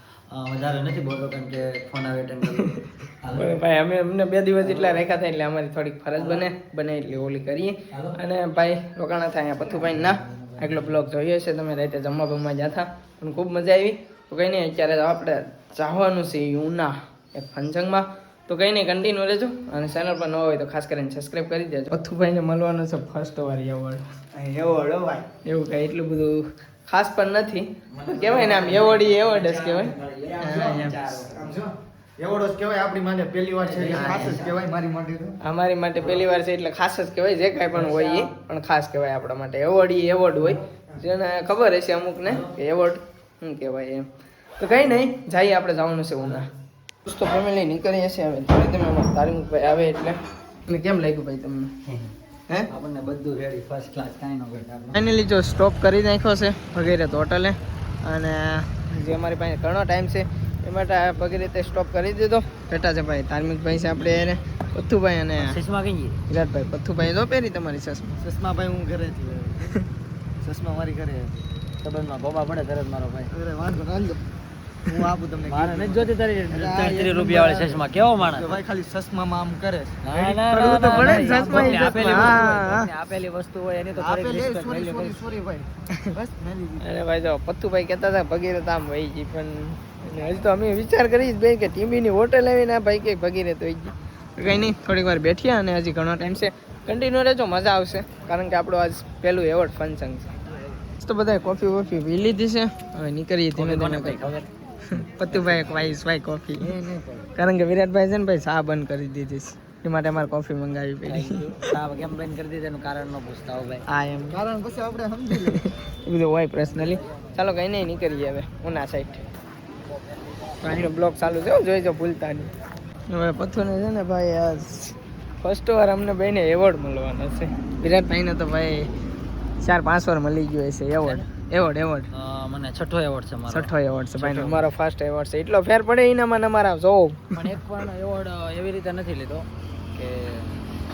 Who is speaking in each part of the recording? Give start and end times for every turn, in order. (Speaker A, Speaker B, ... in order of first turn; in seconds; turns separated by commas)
Speaker A: 0.3-3.6, Speaker B: 3.4-24.0, Speaker A: 4.6-5.0, Speaker A: 6.2-6.5, Speaker A: 7.9-8.2, Speaker A: 10.2-10.8, Speaker C: 24.3-25.2, Speaker B: 25.4-31.0, Speaker A: 27.9-31.4, Speaker C: 30.4-30.7, Speaker C: 31.3-35.4, Speaker A: 33.6-34.6, Speaker B: 33.9-34.4, Speaker B: 35.4-44.1, Speaker A: 37.7-38.3, Speaker B: 44.6-46.5, Speaker B: 47.0-51.7, Speaker A: 52.7-55.0, Speaker B: 54.9-65.6, Speaker A: 65.4-66.2, Speaker B: 66.3-68.2, Speaker C: 68.2-69.7, Speaker C: 70.4-71.4, Speaker A: 71.8-73.3, Speaker C: 73.3-74.2, Speaker C: 74.9-82.5, Speaker A: 75.5-78.6, Speaker A: 80.0-85.2, Speaker B: 80.5-82.9, Speaker C: 84.0-86.8, Speaker B: 86.8-100.3, Speaker B: 101.0-104.2, Speaker A: 103.5-104.5, Speaker B: 104.9-106.7, Speaker A: 105.3-105.9, Speaker A: 106.6-107.3, Speaker B: 107.3-111.7, Speaker A: 111.0-113.8, Speaker B: 113.9-114.4, Speaker C: 114.3-115.7, Speaker B: 115.3-119.2, Speaker B: 120.6-122.5, Speaker B: 123.1-128.9, Speaker B: 129.6-132.1, Speaker A: 132.1-134.6, Speaker B: 133.5-137.5, Speaker A: 137.3-140.5